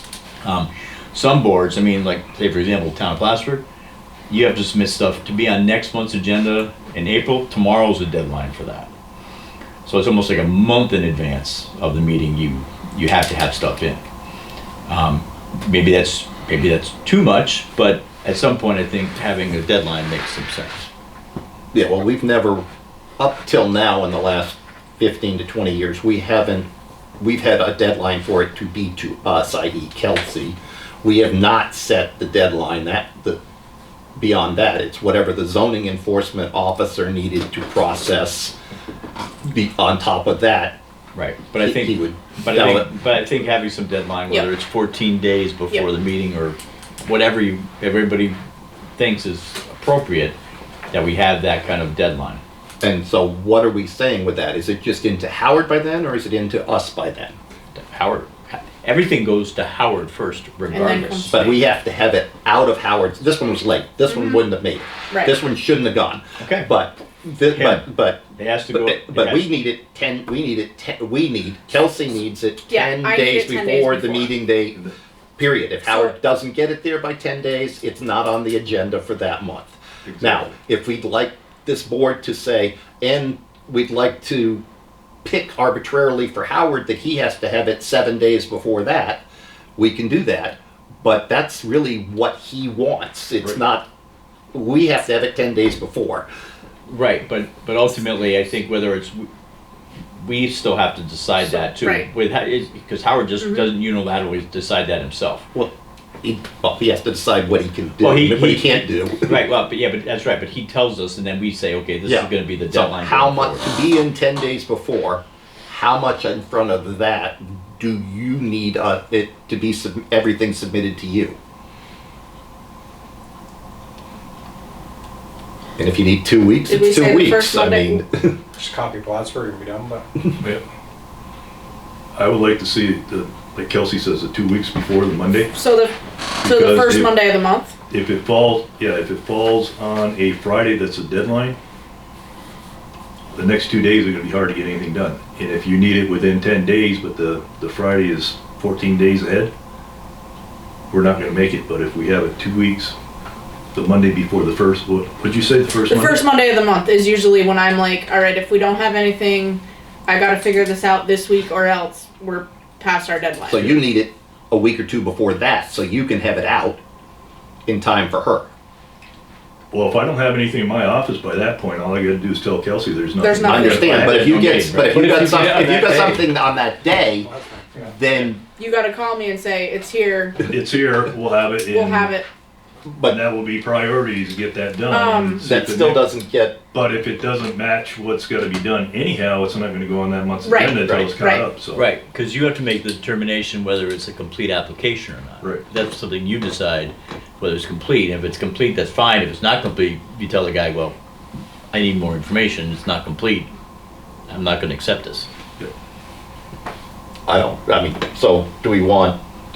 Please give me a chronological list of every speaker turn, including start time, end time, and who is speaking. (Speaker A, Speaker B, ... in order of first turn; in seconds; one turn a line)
Speaker A: 0.4-3.6
Speaker A: 4.3-8.9
Speaker A: 9.8-14.0
Speaker A: 14.9-20.9
Speaker B: 21.7-22.6
Speaker B: 23.2-26.7
Speaker B: 27.2-33.4
Speaker B: 34.2-38.5
Speaker B: 39.4-40.8
Speaker A: 41.1-48.4
Speaker B: 41.6-42.9
Speaker A: 49.0-50.3
Speaker A: 50.9-52.4
Speaker B: 52.8-57.4
Speaker A: 57.7-61.5
Speaker C: 60.7-61.4
Speaker B: 61.3-84.6
Speaker C: 64.1-64.4
Speaker A: 66.4-66.7
Speaker A: 67.5-69.4
Speaker C: 72.7-74.3
Speaker D: 80.0-80.5
Speaker B: 85.2-89.2
Speaker B: 89.8-93.9
Speaker B: 94.5-96.3
Speaker A: 96.9-99.3
Speaker A: 100.2-105.5
Speaker C: 101.6-102.1
Speaker B: 106.2-109.4
Speaker A: 108.0-113.7
Speaker B: 112.0-121.4
Speaker B: 125.8-128.4
Speaker C: 126.7-128.0
Speaker E: 128.6-130.1
Speaker D: 132.1-135.5
Speaker C: 135.5-137.7
Speaker D: 136.4-137.2
Speaker D: 137.9-141.6
Speaker D: 143.3-149.5
Speaker D: 150.9-153.0
Speaker D: 153.7-156.2
Speaker C: 155.9-163.8
Speaker B: 163.5-166.8
Speaker B: 167.7-168.5
Speaker D: 169.7-174.9
Speaker C: 173.2-174.1
Speaker B: 173.4-178.4
Speaker A: 173.7-176.2
Speaker E: 177.2-178.0
Speaker C: 178.6-180.4
Speaker D: 180.4-182.1
Speaker C: 181.7-182.3
Speaker B: 182.8-183.2
Speaker D: 183.1-186.1
Speaker C: 184.9-185.4
Speaker B: 185.4-186.6
Speaker D: 186.7-191.8
Speaker C: 190.4-191.4
Speaker B: 190.6-191.1
Speaker A: 191.7-200.9
Speaker A: 201.7-203.5
Speaker A: 204.3-205.3
Speaker B: 207.3-209.2